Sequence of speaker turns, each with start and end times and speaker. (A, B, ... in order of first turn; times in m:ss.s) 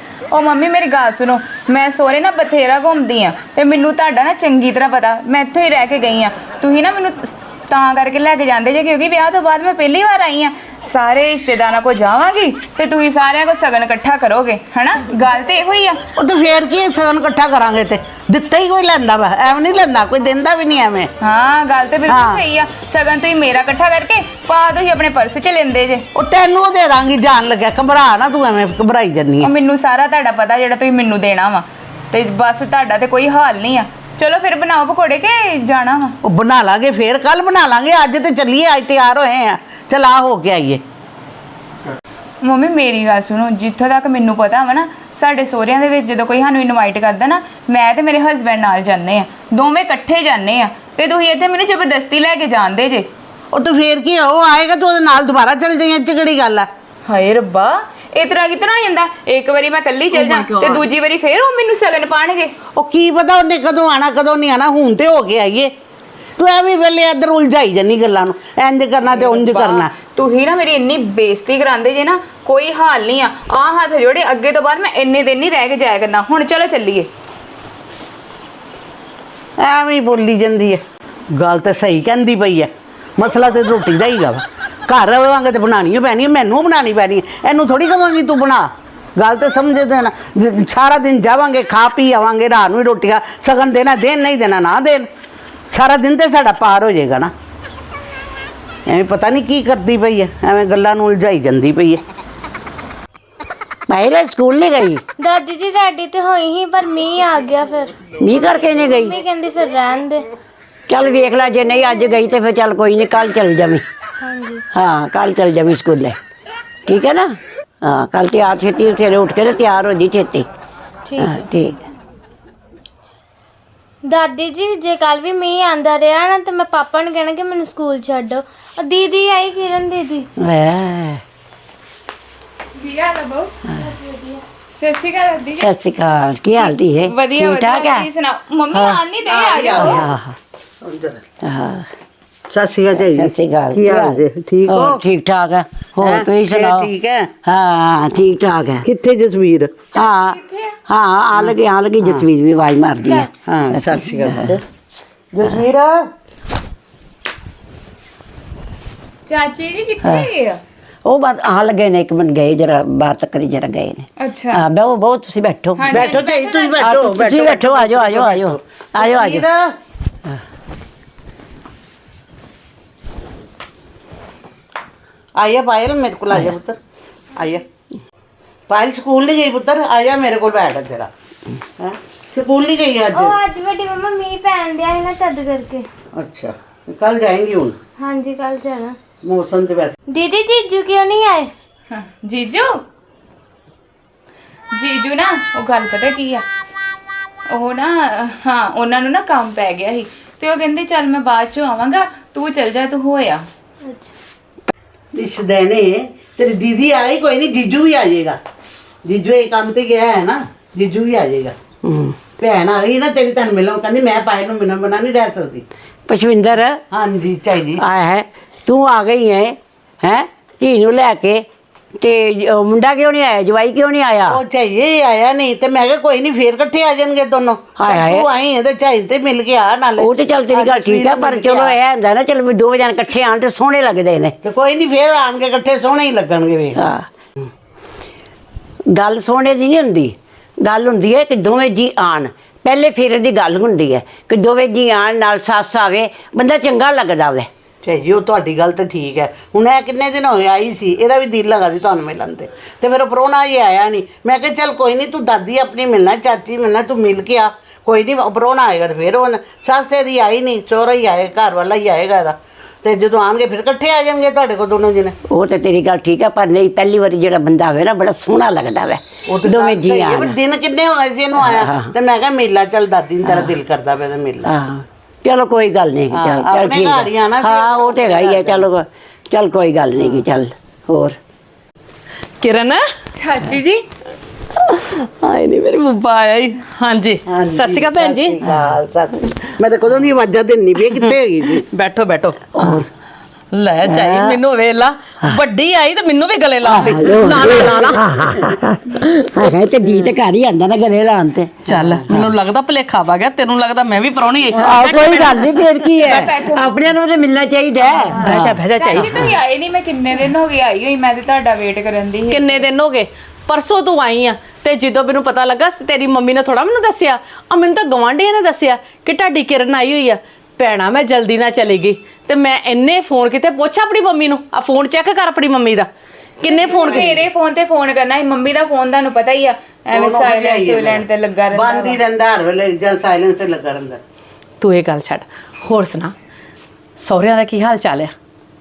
0:00.3-0:16.0 A
0:16.2-0:21.1 B
0:21.2-0:26.0 A
0:22.1-0:22.4 B
0:26.2-0:29.5 B
0:29.4-0:36.2 A
0:36.2-0:40.8 B
0:42.4-0:53.1 A
0:53.5-0:56.7 B
0:57.1-1:02.5 A
1:00.1-1:00.8 C
1:02.8-1:05.7 B
1:06.4-1:09.9 B
1:09.2-1:09.8 C
1:10.0-1:17.1 A
1:19.6-1:20.8 B
1:21.4-1:35.1 B
1:35.7-1:37.3 B
1:38.9-1:42.0 B
1:43.9-1:45.0 D
1:45.2-1:50.3 E
1:48.2-1:49.2 D
1:50.9-1:53.8 D
1:54.2-1:54.6 E
1:54.7-1:56.2 D
1:56.9-2:00.5 D
2:01.1-2:01.4 E
2:01.2-2:01.8 D
2:04.0-2:10.3 E
2:10.4-2:11.2 D
2:12.8-2:15.7 A
2:15.6-2:18.1 D
2:16.6-2:20.1 A
2:18.7-2:19.0 D
2:19.3-2:20.1 B
2:19.8-2:20.4 D
2:20.8-2:21.2 B
2:21.4-2:21.9 D
2:22.5-2:25.0 B
2:22.9-2:26.9 D
2:26.0-2:27.3 B
2:27.4-2:28.8 D
2:28.8-2:29.8 B
2:30.0-2:34.6 D
2:30.0-2:30.8 A
2:31.3-2:32.2 B
2:33.5-2:34.6 B
2:35.3-2:36.0 B
2:39.3-2:40.6 A
2:41.0-2:46.2 D
2:44.2-2:44.6 A
2:45.8-2:46.8 A
2:45.9-2:49.6 B
2:46.8-2:49.4 D
2:55.4-2:56.8 B
2:57.4-2:57.6 B
2:58.7-3:01.1 B
3:01.8-3:03.4 B
3:03.2-3:05.9 E
3:06.2-3:07.8 B
3:08.0-3:09.0 E
3:09.2-3:10.0 B
3:10.1-3:11.5 E
3:11.9-3:12.8 A
3:14.7-3:16.4 A
3:17.5-3:23.5 A
3:23.8-3:24.1 E
3:25.1-3:28.4 B
3:29.0-3:31.5 B
3:31.8-3:32.2 D
3:32.4-3:35.6 B
3:36.1-3:36.8 D
3:36.9-3:37.8 B
3:37.8-3:41.4 D
3:42.0-3:44.4 D
3:44.3-3:51.8 B
3:47.8-3:48.2 D
3:50.0-3:54.4 D
3:54.4-3:56.8 B
3:56.8-3:57.1 D
3:58.9-4:07.5 D
4:07.8-4:25.2 B
4:25.3-4:30.4 D
4:29.3-4:34.5 B
4:31.4-4:31.9 D
4:33.2-4:33.5 D
4:34.4-4:41.2 D
4:36.1-4:38.7 B
4:42.4-4:42.8 C
4:43.2-4:43.8 A
4:44.6-4:48.4 C
4:47.3-4:51.6 B
4:51.6-4:52.8 C
4:52.5-4:52.9 D
4:53.5-4:58.2 C
4:53.8-4:54.4 D
4:56.6-5:02.3 D
4:56.8-4:57.7 B
5:01.7-5:06.0 C
5:04.5-5:09.4 D
5:06.0-5:06.8 A
5:08.1-5:09.1 C
5:08.8-5:12.6 A
5:12.3-5:25.9 C
5:26.4-5:27.2 C
5:26.5-5:27.2 B
5:26.7-5:32.0 A
5:29.9-5:34.0 B
5:34.6-5:36.1 C
5:37.0-5:38.1 C